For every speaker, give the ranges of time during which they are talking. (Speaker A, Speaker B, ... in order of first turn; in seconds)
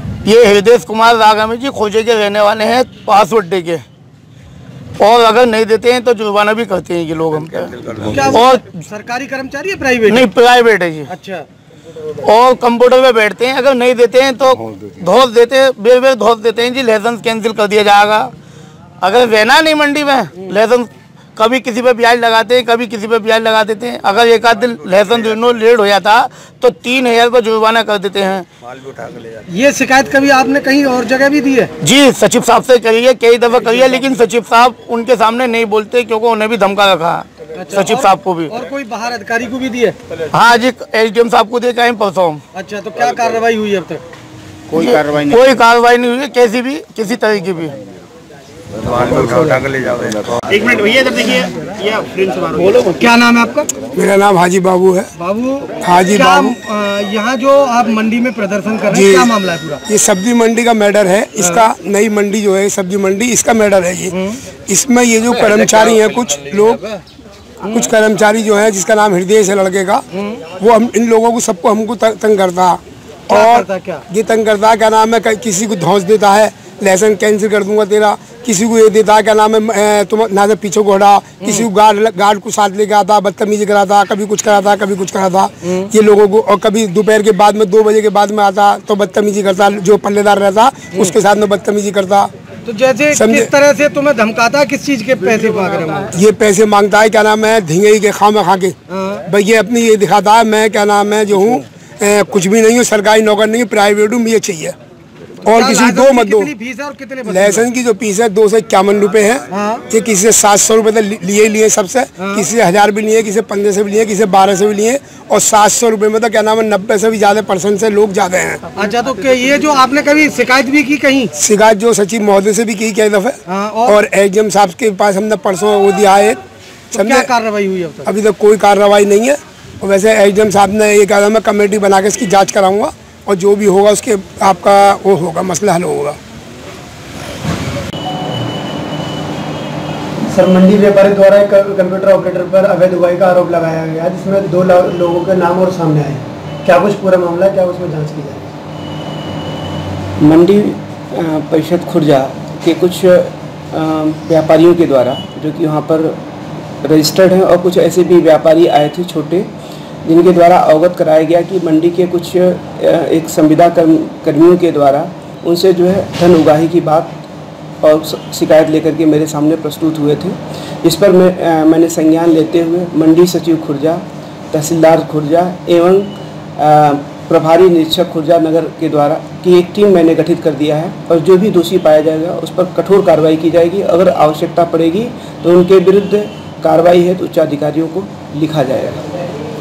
Speaker A: 0.2-3.8, 5.0-8.8, 10.0-11.1, 12.2-18.3, 19.0-28.5, 31.8-38.5, 40.3-42.4, 44.8-47.7
Speaker B: 8.0-10.3, 11.1-11.4, 29.5-31.7, 37.5-40.0, 42.5-44.0, 52.8-53.7, 55.2-59.8, 64.1-64.4, 70.1-70.4, 73.3-74.0, 92.6-96.1, 98.9-99.2, 105.5-107.7, 109.5-109.8, 112.2-112.5, 118.8-121.3, 123.5-124.0, 126.9-128.1
Speaker C: 44.7-45.5, 50.5-52.8
Speaker D: 53.9-55.1, 55.8-56.6, 58.9-59.3, 59.9-66.9, 67.6-92.3, 93.1-93.5, 96.1-104.7, 105.4-106.5, 107.2-118.6, 121.4-126.4, 126.9-127.3, 128.0-136.2
Speaker E: 140.3-148.5
Speaker F: 150.2-156.2, 156.8-159.5, 160.0-167.2, 167.8-189.1